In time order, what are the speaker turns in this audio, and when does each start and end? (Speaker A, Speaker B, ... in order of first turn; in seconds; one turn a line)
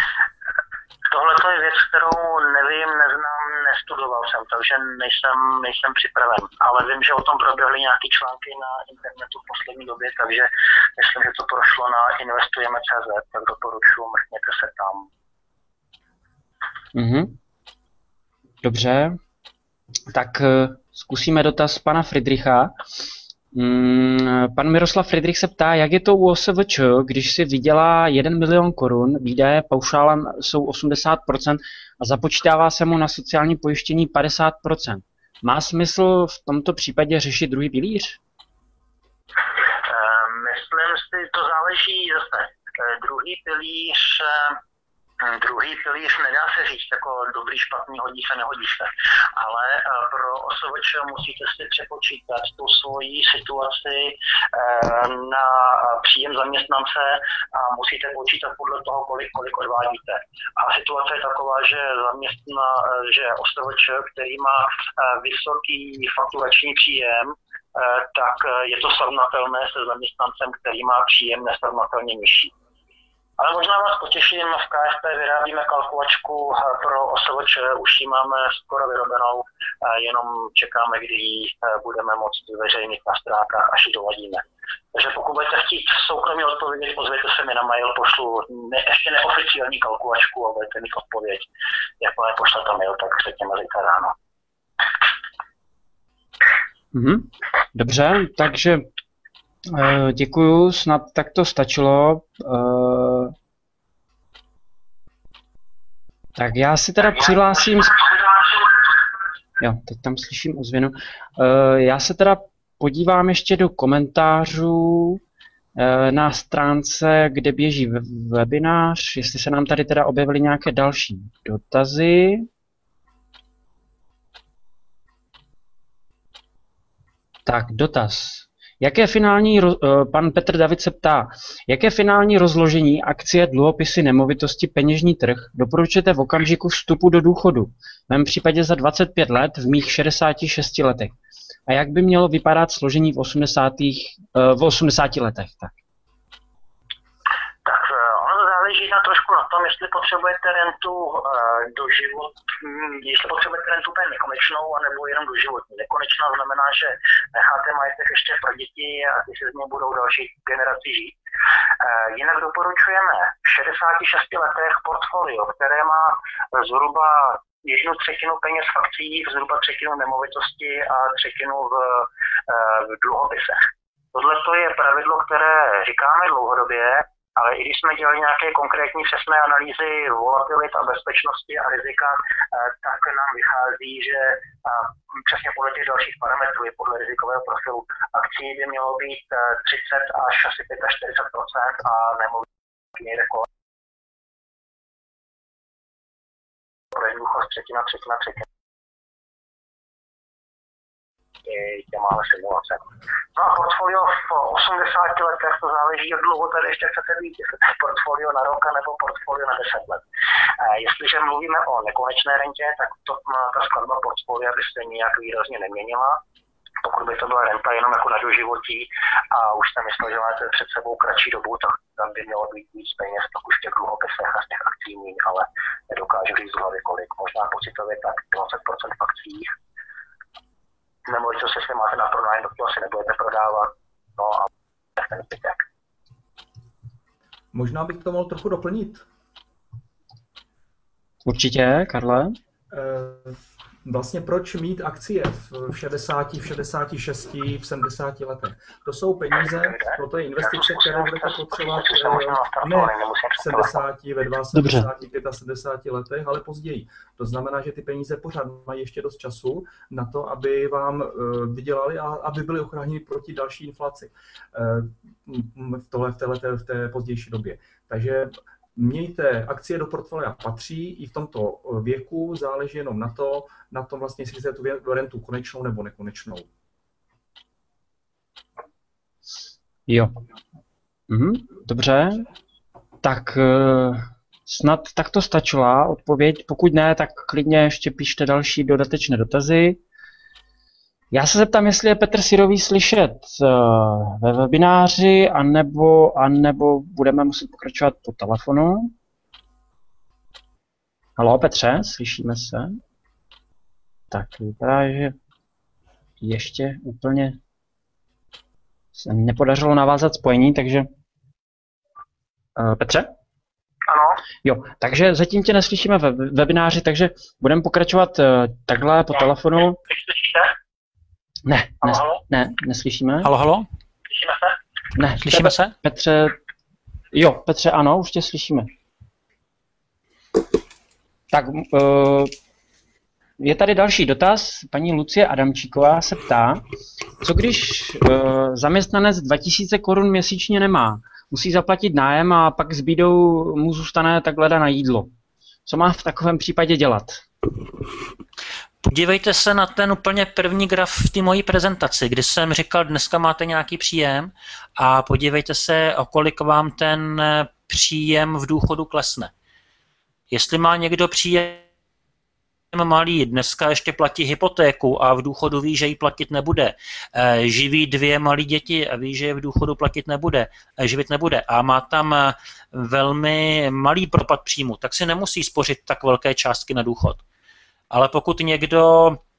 Speaker A: 1.1-15.1
Speaker B: 16.9-17.4
Speaker B: 18.6-19.2
Speaker B: 20.1-22.8
Speaker B: 23.5-38.2
Speaker A: 39.7-44.6
Speaker A: 45.2-72.5
Speaker A: 73.4-84.4
Speaker A: 84.9-91.5
Speaker A: 92.0-94.1
Speaker B: 96.9-98.9
Speaker B: 99.7-103.3
Speaker B: 106.4-108.0
Speaker B: 109.6-115.2
Speaker B: 115.8-122.5
Speaker B: 127.5-141.1
Speaker B: 141.7-145.7
Speaker A: 147.7-161.2
Speaker A: 161.8-173.6
Speaker A: 174.1-193.5
Speaker A: 196.9-198.5
Speaker A: 201.5-202.8
Speaker A: 203.4-210.0
Speaker A: 210.6-216.2
Speaker A: 216.8-229.5
Speaker A: 231.1-235.6
Speaker C: 237.5-239.0
Speaker B: 241.2-242.3
Speaker C: 242.7-276.5
Speaker A: 249.6-253.8
Speaker B: 254.5-254.9
Speaker B: 279.9-280.1
Speaker B: 281.1-282.3
Speaker B: 283.0-289.8
Speaker B: 291.1-298.9
Speaker B: 301.2-302.8
Speaker B: 304.1-305.1
Speaker B: 306.2-307.4
Speaker B: 308.9-310.9
Speaker B: 312.6-313.1
Speaker A: 313.9-314.2
Speaker B: 314.4-319.8
Speaker A: 319.9-320.5
Speaker B: 321.4-323.3
Speaker A: 321.8-322.2
Speaker D: 323.2-323.7
Speaker A: 324.1-324.5
Speaker B: 325.0-326.4
Speaker D: 325.2-325.8
Speaker B: 327.1-328.7
Speaker B: 331.3-332.3
Speaker B: 333.4-336.6
Speaker B: 337.2-345.1
Speaker B: 345.7-347.3
Speaker D: 348.8-359.3
Speaker D: 360.3-361.6
Speaker D: 362.7-377.2
Speaker D: 377.9-379.2